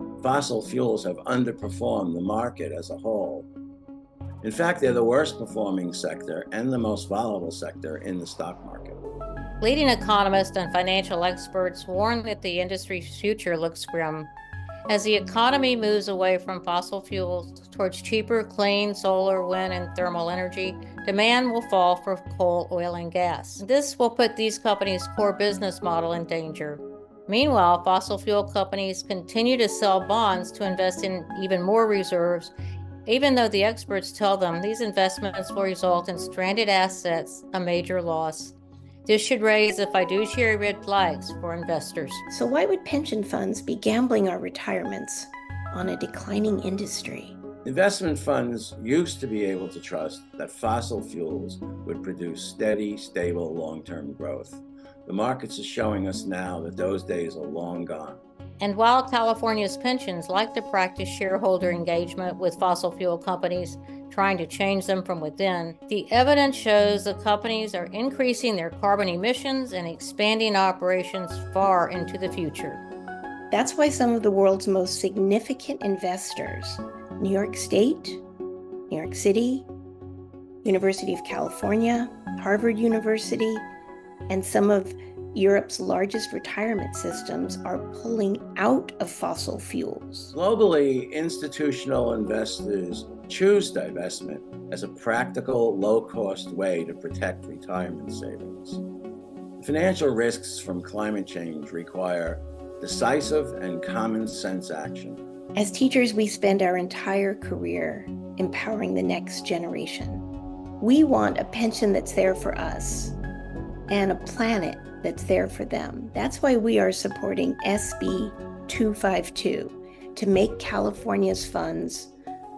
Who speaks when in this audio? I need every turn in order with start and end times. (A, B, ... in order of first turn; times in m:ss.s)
0:00.2-0:03.5 A
0:04.4-0:09.0 A
0:09.6-0:14.3 B
0:14.9-0:32.5 B
0:33.0-0:38.5 B
0:39.0-0:42.2 B
0:42.3-0:47.4 C
0:47.6-0:58.2 A
0:58.6-1:12.8 B
1:13.5-1:18.2 C
1:18.9-1:19.7 C
1:20.6-1:23.7 C
1:24.3-1:30.3 C
1:30.3-1:38.8 A
1:39.6-1:45.2 A
1:45.6-1:50.2 C
1:50.8-1:53.2 C
1:53.9-2:02.1 C